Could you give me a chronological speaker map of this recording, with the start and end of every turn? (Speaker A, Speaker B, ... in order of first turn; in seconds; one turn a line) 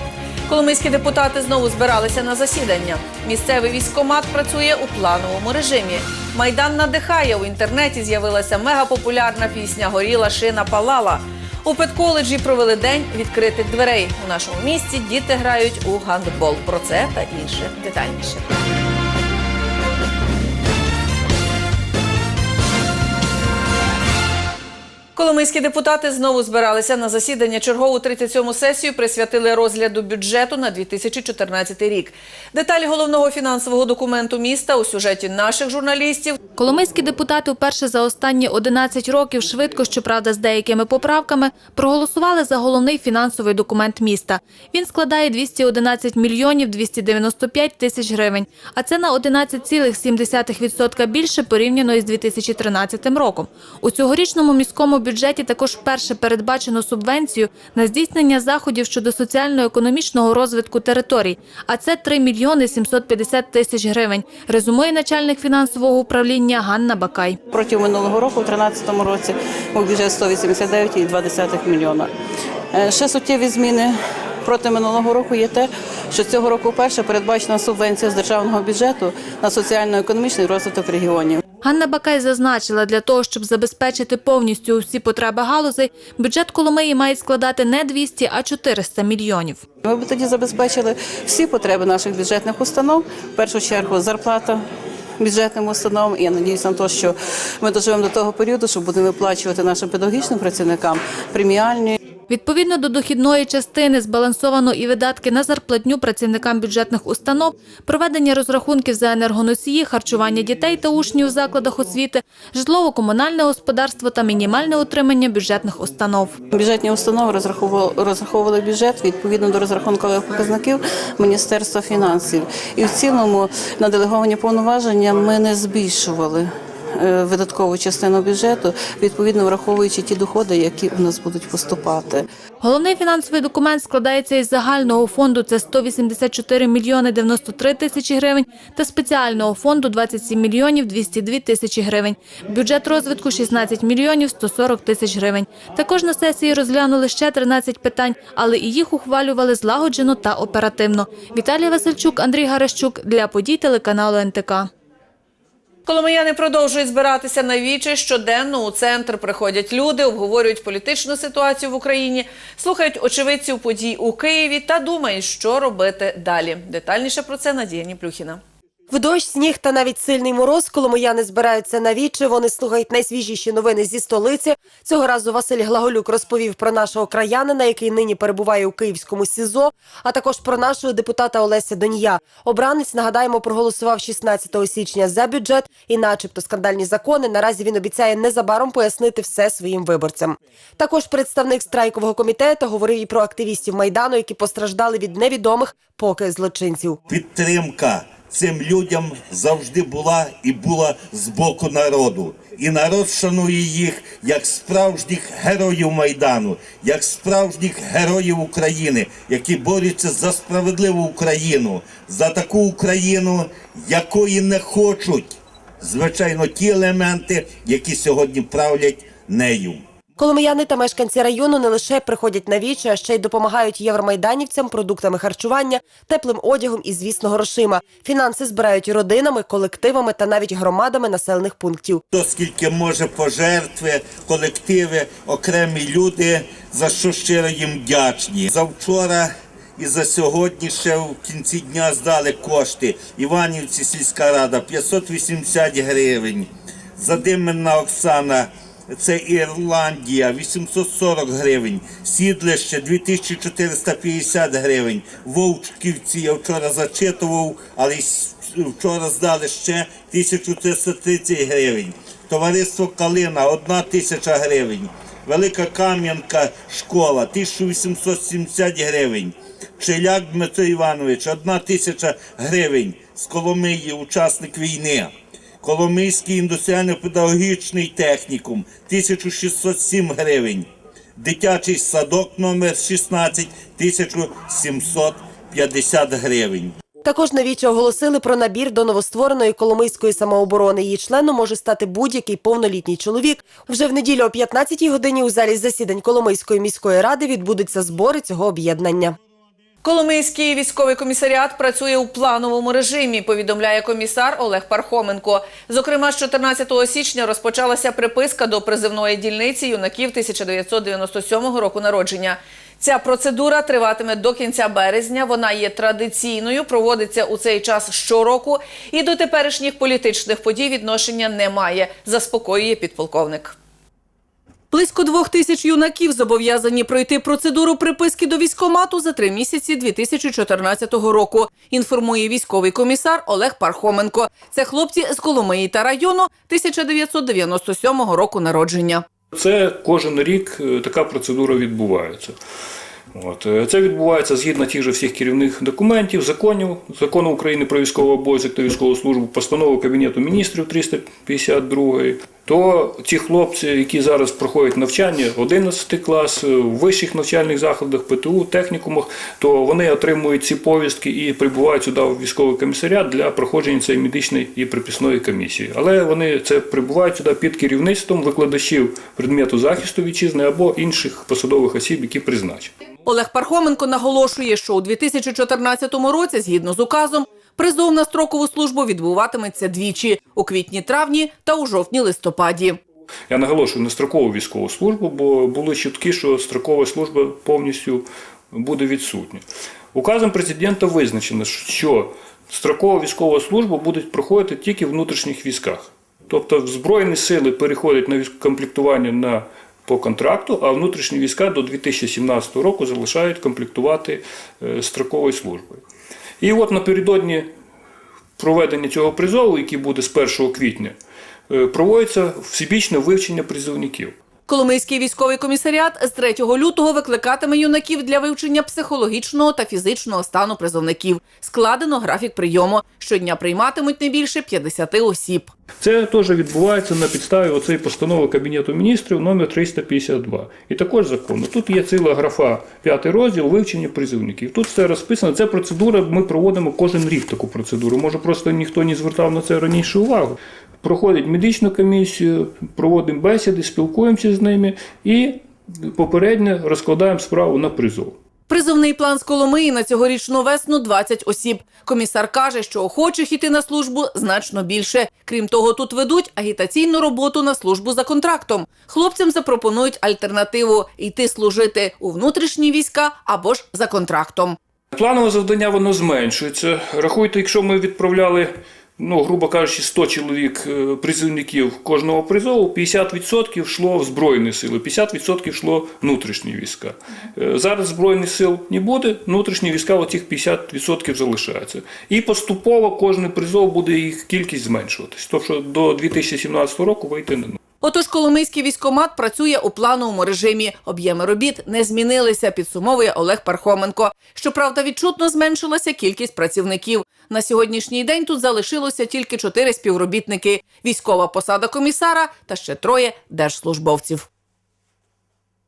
Speaker A: 0.5-18.4
Speaker A: 25.1-36.4
Speaker B: 36.6-67.4
Speaker C: 67.5-72.1
Speaker C: 72.7-81.4
Speaker B: 81.6-89.6
Speaker C: 89.8-94.6
Speaker C: 95.2-102.0
Speaker B: 102.3-116.3
Speaker C: 116.5-132.2
Speaker B: 132.6-154.7
Speaker A: 155.9-168.4
Speaker D: 168.9-197.0
Speaker E: 197.1-219.8
Speaker D: 220.2-232.0
Speaker E: 232.1-286.7
Speaker D: 287.0-299.2
Speaker A: 299.8-323.6
Speaker A: 324.7-339.0
Speaker F: 339.3-342.4
Speaker F: 343.1-372.7
Speaker A: 373.1-382.8
Speaker F: 383.3-405.8
Speaker F: 406.4-407.5
Speaker F: 408.4-411.0
Speaker F: 411.5-414.1
Speaker A: 414.5-425.5
Speaker F: 425.8-448.2
Speaker A: 448.5-464.6
Speaker F: 464.9-487.6
Speaker A: 487.8-504.3